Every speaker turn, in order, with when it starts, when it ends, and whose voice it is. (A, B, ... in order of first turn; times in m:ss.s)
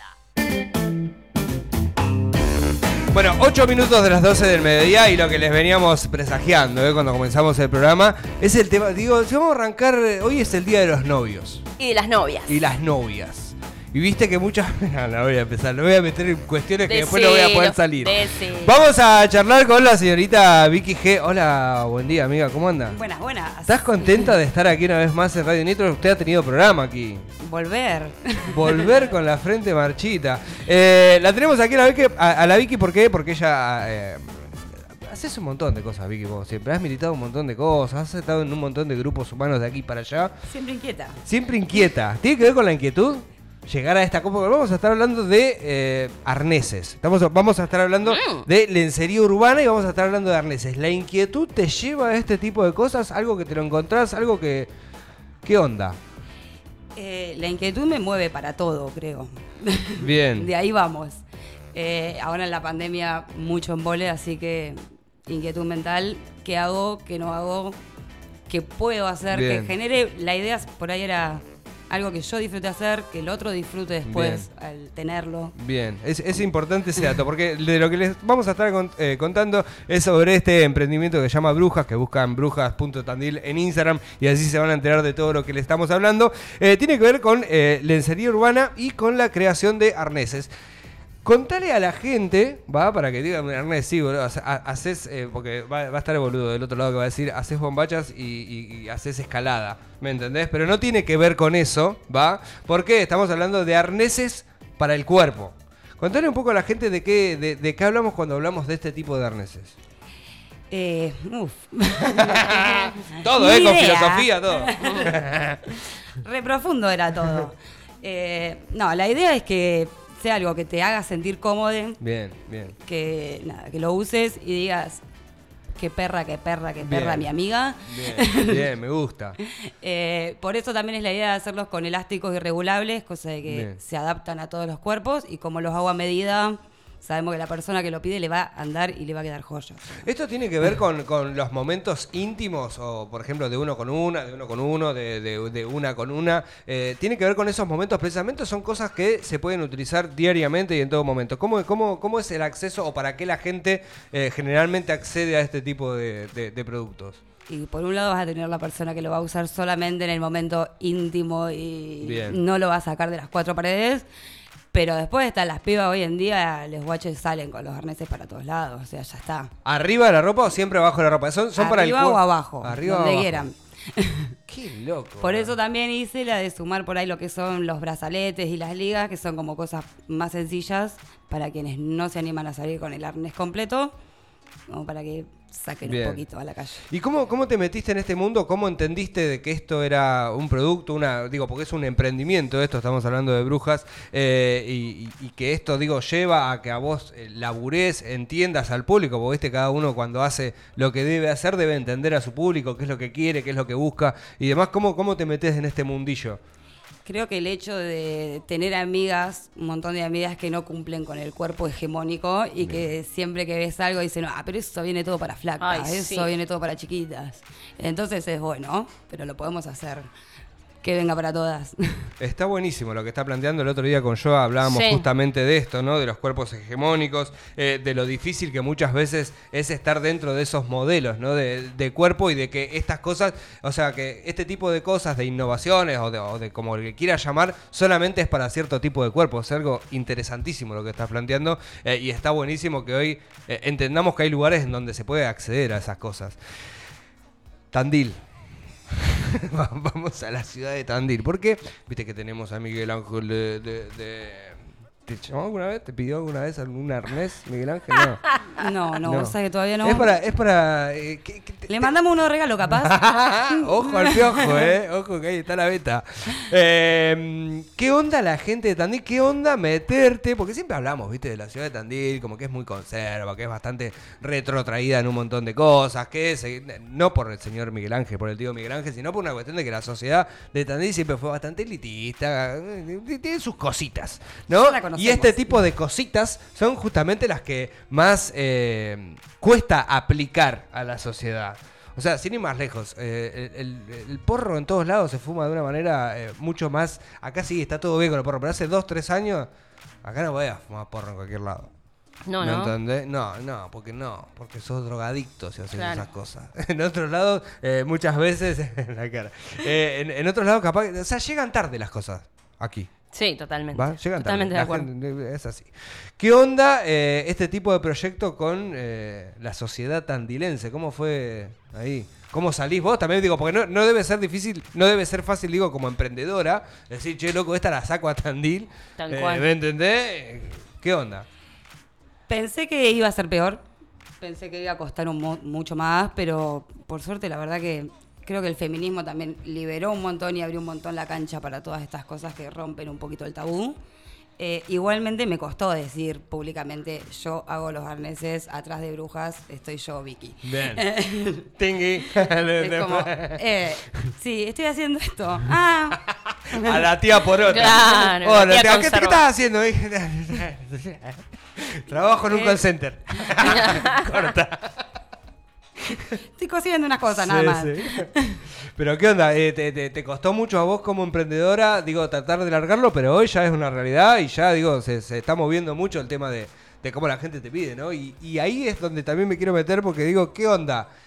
0:03.1-0:11.6 A
0:11.8-0:12.6 B
0:12.5-0:23.0 A
0:16.9-0:18.8 B
0:22.9-0:24.3 C
0:23.7-0:27.3 A
0:27.4-0:29.0 C
0:28.5-0:40.4 A
0:40.5-0:41.2 C
0:41.2-0:54.7 A
0:48.0-0:48.4 B
0:55.4-0:56.0 A
0:56.9-1:07.8 C
1:00.0-1:00.5 A
1:08.5-1:15.5 C
1:09.3-1:09.7 A
1:14.0-1:14.5 A
1:15.5-1:30.5 A
1:31.2-1:49.7 A
1:50.7-1:52.6 C
1:52.1-1:55.7 A
1:53.1-2:02.0 C
2:02.0-2:02.7 A
2:02.8-2:05.0 C
2:05.7-2:08.6 C
2:06.8-2:09.4 A
2:09.4-2:20.0 C
2:13.4-2:13.8 A
2:19.9-2:37.2 A
2:37.5-2:44.0 C
2:42.0-2:42.4 A
2:44.7-2:49.5 C
2:49.6-2:53.5 A
2:51.6-2:54.4 C
2:54.5-2:55.5 A
2:55.2-3:03.9 C
3:04.7-3:06.8 C
3:05.8-3:06.2 A
3:06.9-3:26.4 A
3:27.0-3:40.1 C
3:35.6-3:36.3 B
3:40.8-3:42.1 C
3:42.2-4:06.4 A
3:44.6-3:45.0 B
4:07.7-4:08.2 A
4:08.9-4:18.3 A
4:18.5-4:20.1 C
4:19.0-4:21.9 A
4:21.7-4:24.7 C
4:22.7-4:59.5 A
4:44.5-4:45.5 C
5:00.0-5:01.7 A
5:02.3-5:02.7 B
5:02.4-5:12.9 A
5:05.7-5:06.1 B
5:13.1-5:14.9 B
5:13.7-5:31.2 A
5:29.0-5:29.5 B
5:32.3-5:33.6 C
5:34.2-5:43.8 C
5:44.4-5:51.5 C
5:50.4-5:50.8 A
5:51.5-5:53.4 A
5:52.6-5:56.8 C
5:56.5-6:04.8 A
5:57.5-5:59.2 B
6:02.2-6:02.6 C
6:06.3-6:08.4 C
6:07.1-6:20.9 A